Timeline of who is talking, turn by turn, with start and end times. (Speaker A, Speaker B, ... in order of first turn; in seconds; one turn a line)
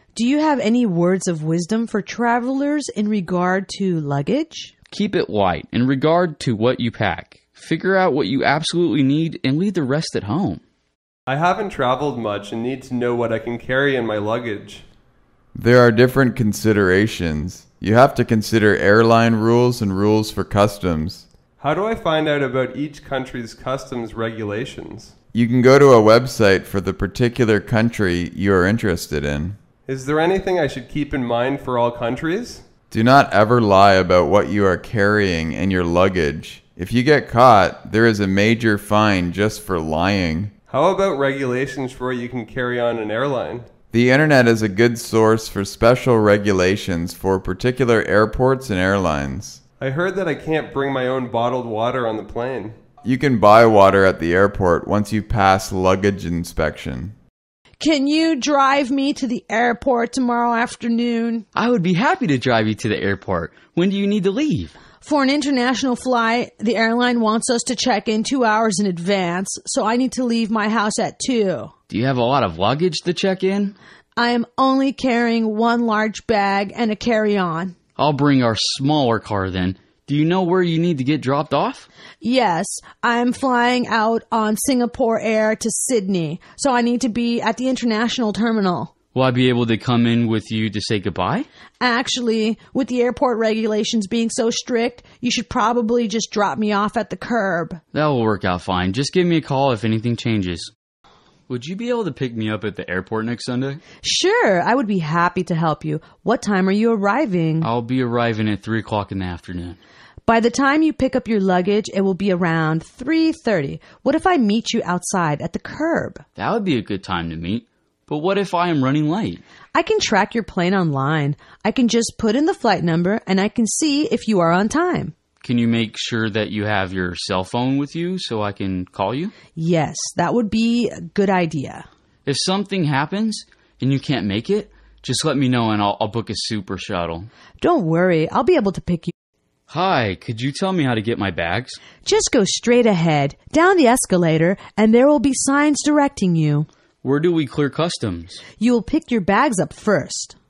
Speaker A: 0.1-4.7
Speaker B: 4.9-10.6
Speaker C: 11.3-14.8
Speaker D: 15.5-21.2
Speaker C: 21.6-25.1
Speaker D: 25.3-29.6
Speaker C: 29.9-32.6
Speaker D: 32.9-40.5
Speaker C: 40.7-43.7
Speaker D: 43.9-49.6
Speaker C: 49.8-52.8
Speaker D: 53.0-57.1
Speaker A: 57.8-61.5
Speaker B: 61.5-64.8
Speaker A: 65.0-71.7
Speaker B: 71.9-73.8
Speaker A: 74.2-77.7
Speaker B: 78.0-81.9
Speaker A: 82.2-88.9
Speaker B: 89.1-91.5
Speaker A: 91.8-97.8
Speaker B: 97.9-100.7
Speaker B: 101.5-103.8
Speaker A: 104.0-107.7
Speaker B: 107.6-109.8
Speaker A: 110.2-116.2
Speaker B: 116.4-119.4
Speaker A: 119.7-125.1
Speaker B: 125.4-129.3
Speaker A: 129.5-131.8
Speaker B: 132.2-137.3
Speaker A: 137.6-139.1
Speaker B: 139.7-141.8
Speaker A: 142.0-146.7
Speaker B: 147.0-148.4
Speaker A: 148.6-150.3